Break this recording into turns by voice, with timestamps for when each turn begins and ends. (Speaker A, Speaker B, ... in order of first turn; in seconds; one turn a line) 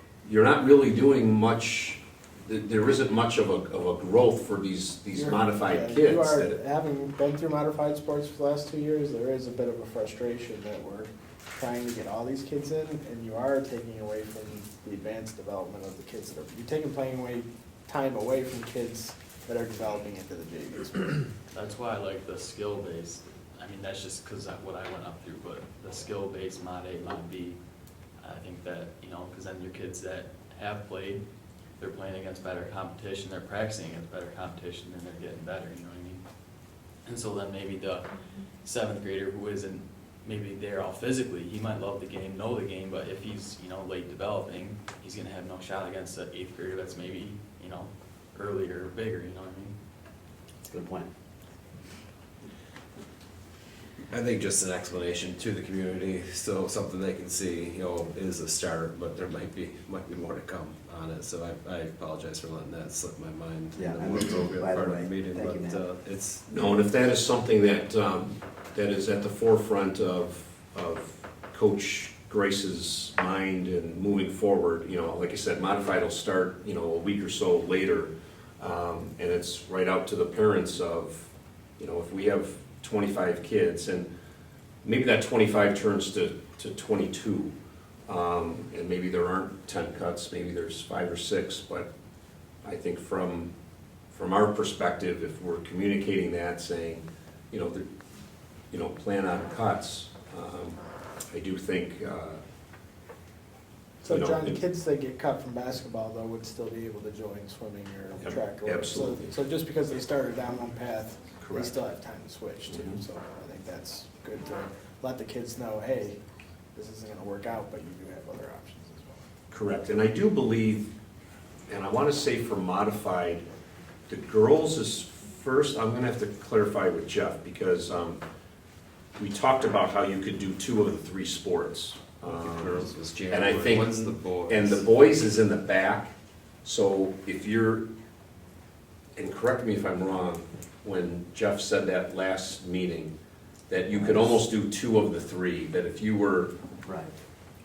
Speaker A: 0.2-6.6
Speaker B: 5.1-21.3
Speaker C: 21.5-27.6
Speaker C: 28.2-31.3
Speaker C: 31.8-36.2
Speaker C: 37.0-38.1
Speaker C: 38.6-49.8
Speaker D: 50.6-51.1
Speaker E: 54.1-66.4
Speaker D: 63.7-65.8
Speaker A: 66.5-84.1
Speaker A: 84.8-87.5
Speaker A: 88.1-91.9
Speaker A: 92.6-93.5
Speaker A: 94.1-97.9
Speaker A: 98.7-100.8
Speaker A: 101.3-102.4
Speaker B: 104.0-116.2
Speaker A: 104.1-104.6
Speaker A: 108.2-109.3
Speaker A: 111.4-111.7
Speaker A: 112.7-113.0
Speaker B: 116.7-119.3
Speaker A: 119.5-120.9
Speaker A: 121.7-123.5
Speaker A: 124.1-128.2
Speaker A: 129.2-136.1
Speaker E: 132.2-134.9
Speaker A: 136.6-137.9
Speaker A: 139.2-143.2
Speaker A: 143.7-146.5
Speaker D: 143.9-144.4
Speaker D: 146.8-147.1